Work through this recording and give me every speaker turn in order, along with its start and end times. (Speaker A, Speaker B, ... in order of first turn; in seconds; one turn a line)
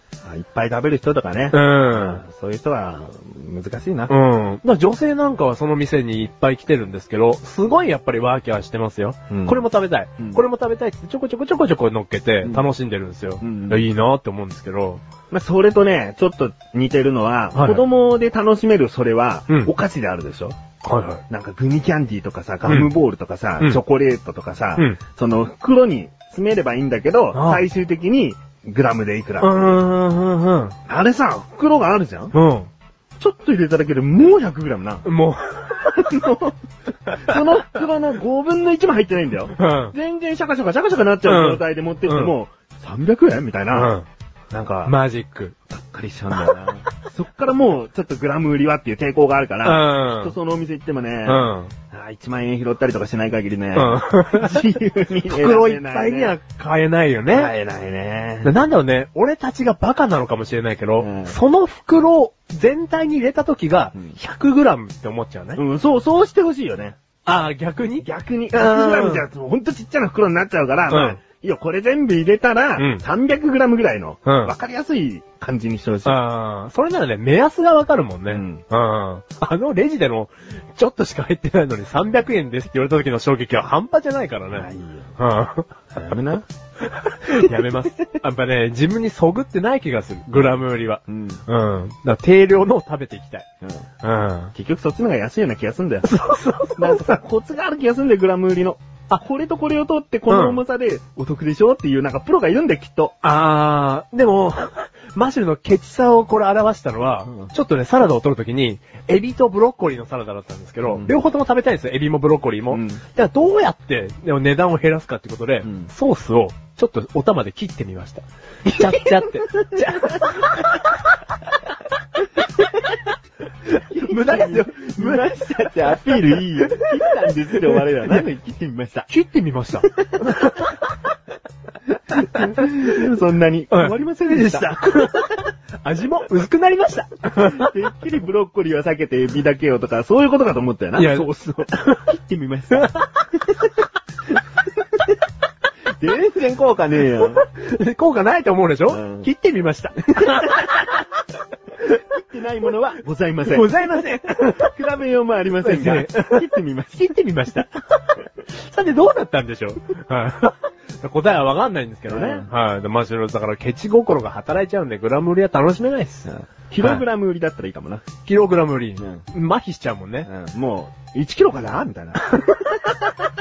Speaker A: 0.2-4.1
Speaker B: 1.5-2.2
Speaker B: 4.1-15.0
Speaker A: 9.3-9.6
Speaker A: 10.2-10.4
Speaker A: 13.4-13.8
Speaker A: 15.3-20.6
Speaker B: 17.5-17.9
Speaker B: 20.8-21.2
Speaker A: 21.3-29.8
Speaker B: 22.6-22.9
Speaker B: 27.3-27.6
Speaker B: 29.4-30.8
Speaker A: 30.8-32.3
Speaker B: 32.3-32.7
Speaker A: 33.2-35.0
Speaker B: 35.0-36.0
Speaker A: 35.8-36.6
Speaker A: 37.1-43.9
Speaker B: 39.5-39.9
Speaker B: 41.2-42.3
Speaker B: 43.7-44.0
Speaker A: 44.5-45.0
Speaker B: 44.9-45.6
Speaker A: 45.6-56.4
Speaker B: 49.6-50.4
Speaker B: 51.2-51.7
Speaker B: 53.7-57.5
Speaker A: 57.3-58.5
Speaker B: 58.4-65.6
Speaker A: 61.0-61.4
Speaker A: 65.6-67.0
Speaker B: 67.2-69.2
Speaker A: 68.0-76.2
Speaker B: 70.9-71.2
Speaker B: 72.8-73.0
Speaker B: 74.2-74.5
Speaker B: 76.0-85.8
Speaker A: 78.3-78.7
Speaker A: 84.5-85.1
Speaker A: 85.9-86.4
Speaker B: 86.8-93.5
Speaker A: 91.1-91.4
Speaker A: 93.6-93.9
Speaker B: 94.0-94.5
Speaker A: 94.5-103.2
Speaker B: 96.0-97.2
Speaker B: 100.3-100.6
Speaker B: 103.2-121.2
Speaker A: 110.8-111.1
Speaker A: 112.7-113.0
Speaker A: 115.6-115.9
Speaker A: 118.7-120.6
Speaker A: 122.6-122.8
Speaker B: 123.7-128.2
Speaker A: 123.7-129.1
Speaker B: 129.1-130.7
Speaker A: 129.8-130.7
Speaker A: 131.8-135.4
Speaker B: 132.4-133.0
Speaker B: 133.7-137.8
Speaker A: 137.4-143.0
Speaker B: 140.9-142.1
Speaker B: 142.7-143.1
Speaker A: 144.3-145.0
Speaker A: 146.0-147.4
Speaker B: 147.4-151.1
Speaker A: 148.9-149.3
Speaker A: 150.0-150.7
Speaker A: 151.9-157.1
Speaker B: 153.4-154.7
Speaker B: 155.6-166.3
Speaker A: 162.1-162.5
Speaker A: 166.2-168.2
Speaker B: 168.2-170.3
Speaker A: 169.0-169.2
Speaker A: 170.2-172.4
Speaker B: 172.4-173.1